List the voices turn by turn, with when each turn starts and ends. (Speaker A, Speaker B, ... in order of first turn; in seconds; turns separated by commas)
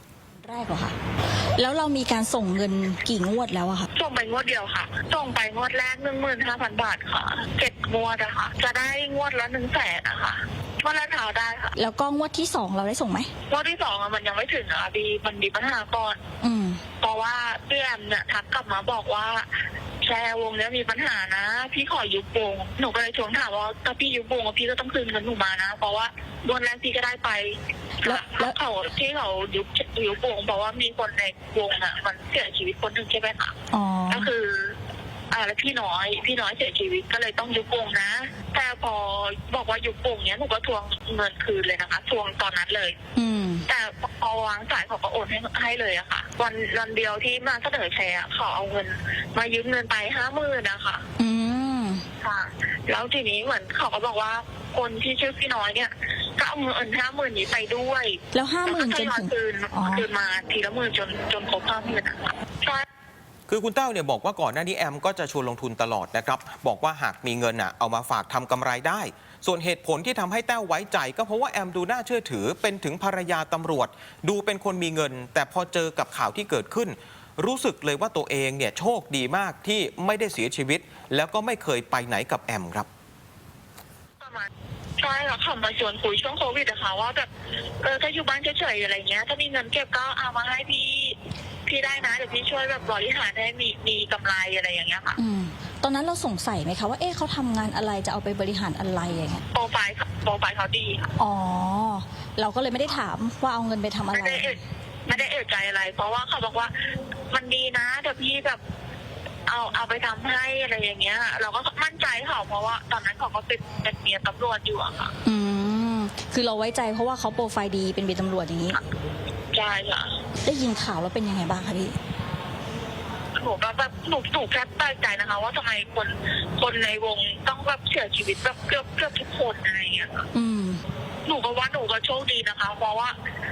Speaker A: 0.4-1.0, Speaker A: 1.6-3.9, Speaker B: 3.9-11.7, Speaker A: 11.8-13.3, Speaker B: 13.5-16.2, Speaker A: 16.4-16.8, Speaker B: 17.0-19.5, Speaker B: 20.0-33.6, Speaker A: 28.0-28.5, Speaker A: 33.7-34.3, Speaker B: 34.1-34.8, Speaker B: 35.3-43.0, Speaker A: 43.1-43.6, Speaker B: 43.7-51.0, Speaker A: 51.2-52.0, Speaker B: 52.2-62.9, Speaker A: 58.3-60.1, Speaker C: 63.5-82.8, Speaker B: 84.2-87.3, Speaker B: 87.8-95.2, Speaker A: 95.2-99.4, Speaker B: 99.5-101.0, Speaker A: 101.2-104.6, Speaker B: 104.1-106.7, Speaker B: 107.3-108.6, Speaker B: 109.5-115.1, Speaker A: 115.2-118.8, Speaker B: 119.5-120.1, Speaker A: 120.4-122.0, Speaker B: 123.3-130.3, Speaker A: 130.3-130.8, Speaker B: 131.2-133.2